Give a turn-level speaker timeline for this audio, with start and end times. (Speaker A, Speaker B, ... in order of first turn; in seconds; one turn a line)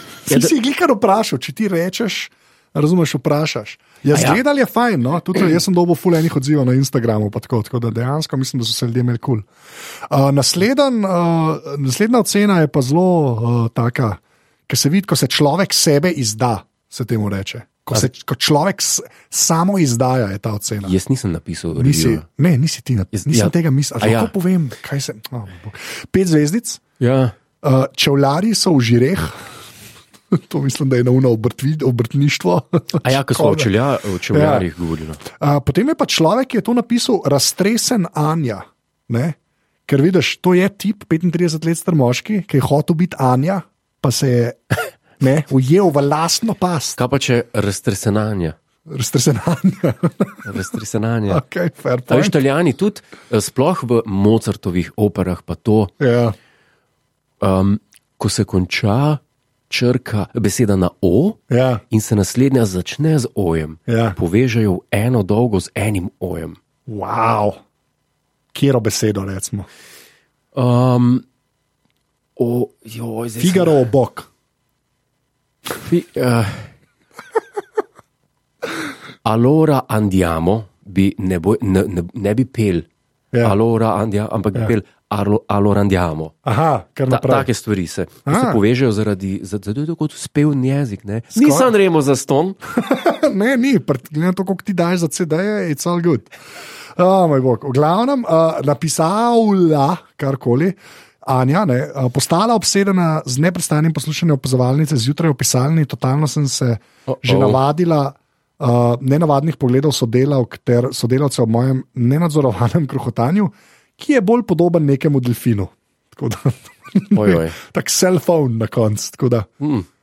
Speaker A: 0.2-9.5
Speaker B: 0.3-0.5
Speaker B: 4.1-4.4
Speaker A: 10.1-20.9
Speaker B: 20.8-22.2
Speaker A: 21.8-26.8
Speaker B: 23.1-24.3
Speaker B: 27.0-27.3
Speaker A: 27.6-29.5
Speaker A: 30.3-33.7
Speaker B: 33.0-35.2
Speaker A: 34.3-34.7
Speaker A: 35.2-39.4
Speaker A: 39.9-47.0
Speaker B: 47.0-48.6
Speaker A: 48.9-50.4
Speaker B: 50.5-51.4
Speaker A: 51.3-52.4
Speaker B: 52.1-55.9
Speaker A: 56.0-56.4
Speaker B: 57.4-61.4
Speaker A: 61.5-61.8
Speaker B: 61.9-66.6
Speaker A: 63.9-64.2
Speaker A: 66.9-67.6
Speaker A: 68.5-69.7
Speaker B: 70.5-71.2
Speaker B: 72.4-73.9
Speaker A: 73.4-74.3
Speaker B: 75.8-76.7
Speaker B: 79.2-82.9
Speaker A: 83.3-83.6
Speaker B: 83.4-86.3
Speaker A: 86.5-87.5
Speaker B: 87.1-92.6
Speaker A: 88.3-88.6
Speaker A: 91.3-91.7
Speaker A: 92.7-96.3
Speaker A: 97.0-119.5
Speaker B: 107.1-107.6
Speaker B: 117.1-117.6
Speaker B: 119.6-119.9